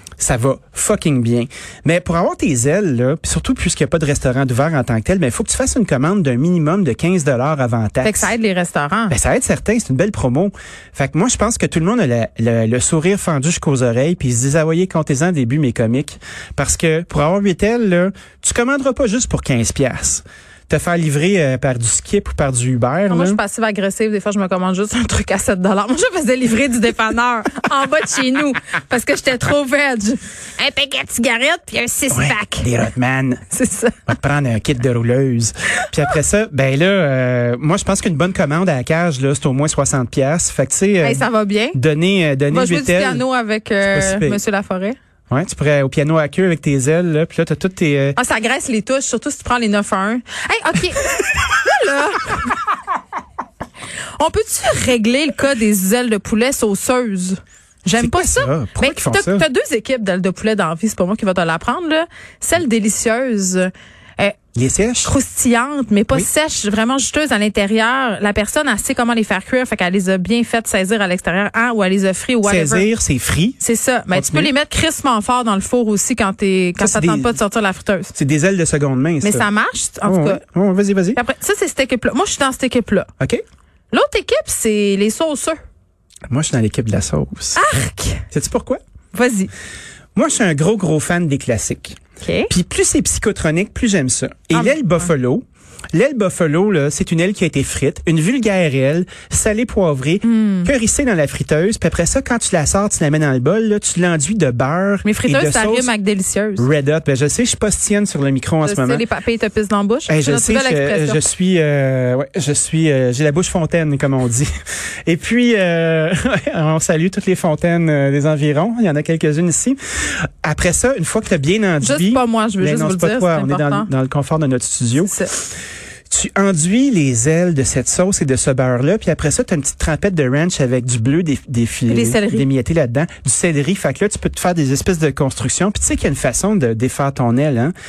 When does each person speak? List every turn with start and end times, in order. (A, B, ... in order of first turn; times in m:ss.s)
0:00.2-0:08.3 A
0:08.0-0:09.2 B
0:09.1-0:23.4 A
0:23.1-0:32.7 B
0:32.1-0:33.4 A
0:33.5-0:34.0 B
0:34.1-0:43.2 A
0:41.0-0:41.8 B
0:42.5-0:45.0 B
0:43.8-0:44.4 A
0:45.3-0:48.2 A
0:48.2-0:52.6 B
0:54.2-1:04.4 B
0:58.0-0:59.4 A
1:04.6-1:05.1 A
1:05.0-1:12.9 B
1:12.4-1:13.6 A
1:13.6-1:18.1 B
1:14.1-1:14.5 A
1:16.8-1:17.4 A
1:18.2-1:19.5 A
1:19.2-1:20.4 B
1:20.1-1:21.2 A
1:21.2-1:23.1 B
1:23.9-1:25.6 B
1:26.3-1:27.7 A
1:27.6-1:28.2 B
1:28.3-1:28.8 A
1:29.1-1:29.5 B
1:30.2-1:32.0 A
1:32.2-1:32.5 B
1:32.5-1:45.9 A
1:34.5-1:35.1 B
1:40.2-1:40.7 B
1:45.0-1:46.7 B
1:46.6-1:49.0 A
1:48.6-1:51.3 B
1:50.1-1:54.5 A
1:55.1-1:59.8 A
2:00.4-2:05.4 A
2:01.8-2:03.9 B
2:05.0-2:05.3 B
2:06.1-2:17.7 A
2:11.9-2:12.5 B